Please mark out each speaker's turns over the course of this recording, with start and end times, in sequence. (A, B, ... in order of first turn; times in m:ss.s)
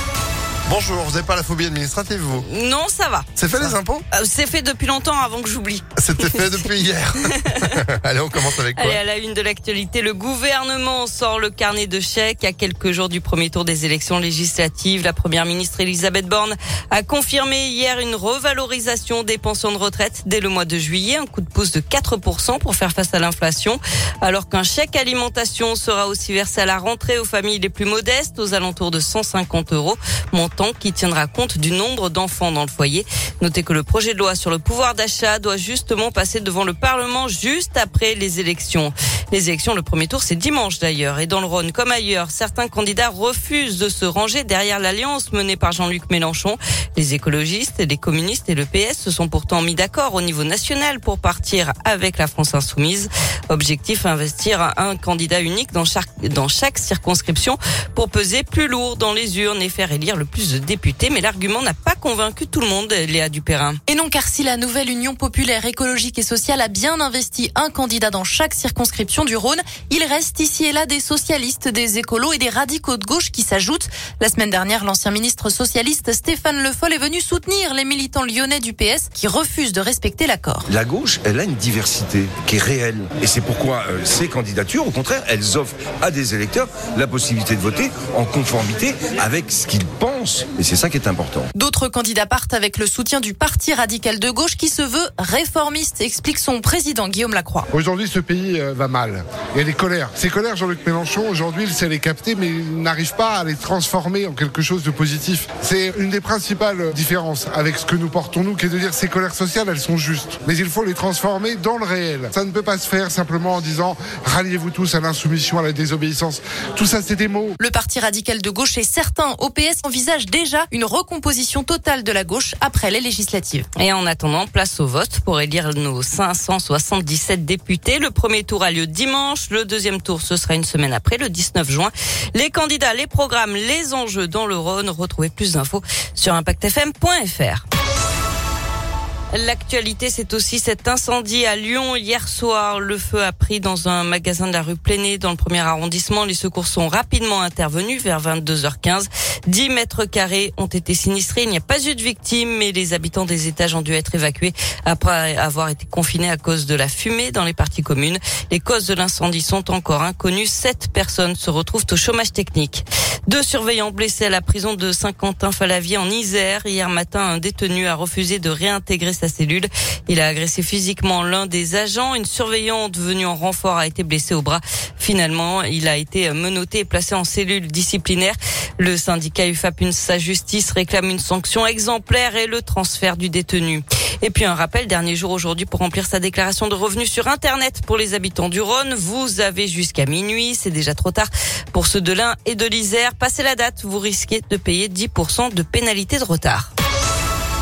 0:00.7-0:02.5 A
0:02.4-0:06.7 B
0:03.4-0:04.0 A
0:06.0-0:09.0 A
0:07.2-0:07.8 B
0:08.6-1:03.8 B
1:03.9-1:20.7 C
1:20.7-1:31.5 D
1:31.6-1:37.7 C
1:37.7-1:57.6 E
1:57.6-2:03.7 C
2:03.8-2:17.6 B
2:19.3-3:16.7 B